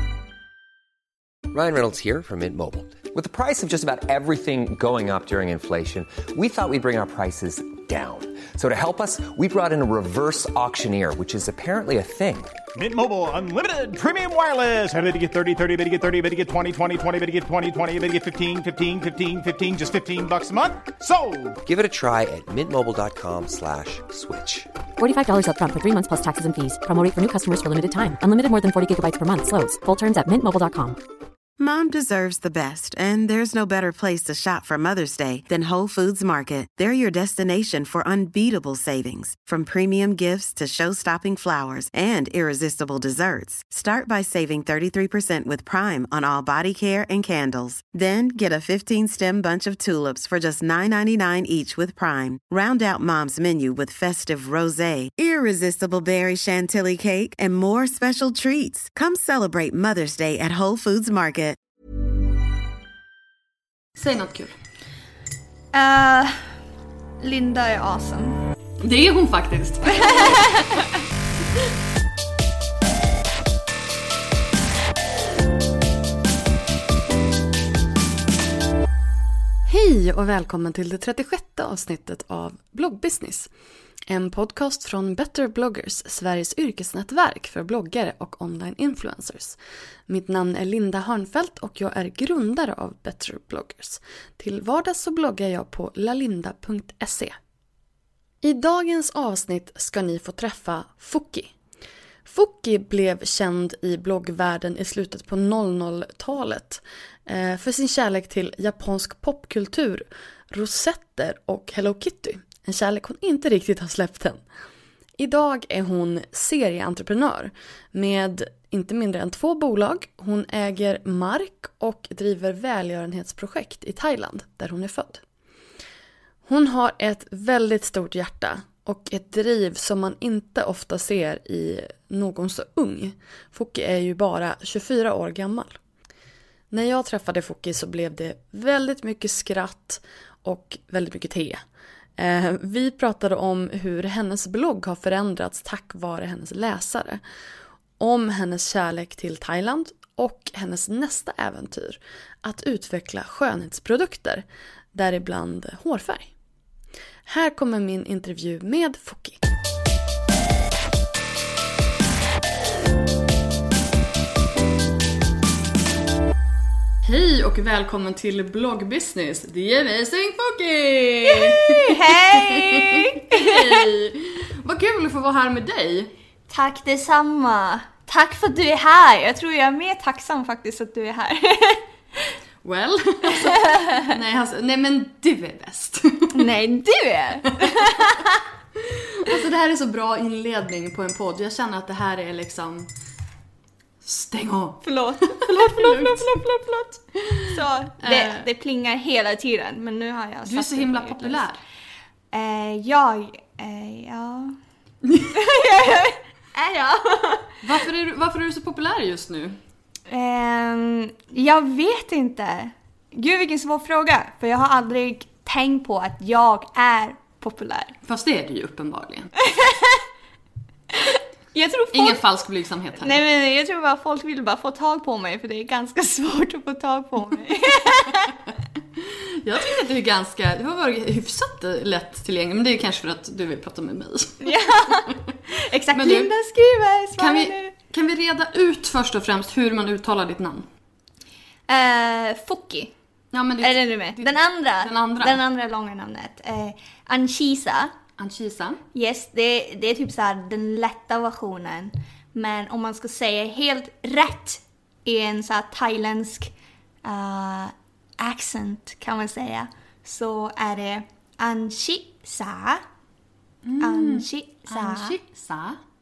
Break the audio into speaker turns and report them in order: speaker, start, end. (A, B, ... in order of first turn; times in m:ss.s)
0:01.5-0:12.5 A
0:12.8-0:21.6 B
0:21.6-0:24.7 A
0:25.0-0:31.0 C
0:31.6-1:01.6 D
1:03.9-1:04.6 E
1:05.7-1:06.6 F
1:07.2-1:08.4 F
1:08.8-1:10.5 E
1:10.0-1:10.8 F
1:19.6-1:23.5 E
1:24.1-1:37.3 E
1:38.4-1:41.5 E
1:42.2-1:54.4 E
1:55.2-2:05.2 E
2:06.4-2:15.8 E
2:16.7-2:21.6 E
2:22.2-2:27.2 E
2:28.0-2:36.3 E
2:37.3-2:39.5 E
2:47.0-2:56.1 E
2:51.3-2:53.5 F
2:56.5-3:02.3 F
3:02.6-3:06.5 E
3:03.7-3:03.9 F
3:06.3-3:08.4 F
3:08.9-3:12.9 E
3:14.0-3:16.4 E
3:14.8-3:21.4 F
3:18.0-3:18.5 E
3:20.4-3:21.6 E
3:22.3-3:24.6 F
3:25.0-3:25.3 E
3:25.3-3:27.5 F
3:27.6-3:29.6 E
3:30.1-3:37.9 F
3:38.1-3:39.3 E
3:39.4-3:40.0 F
3:40.9-3:42.2 F
3:41.9-3:43.2 E
3:43.0-3:48.3 F
3:49.0-3:55.2 E
3:54.4-3:57.7 F
3:55.9-3:56.3 E
3:57.2-4:00.7 E
4:01.7-4:02.9 F
4:03.3-4:05.4 E
4:03.6-4:07.9 F
4:08.2-4:08.8 E
4:08.9-4:16.5 F
4:17.0-4:22.8 F
4:23.6-4:25.8 E
4:23.8-4:25.2 F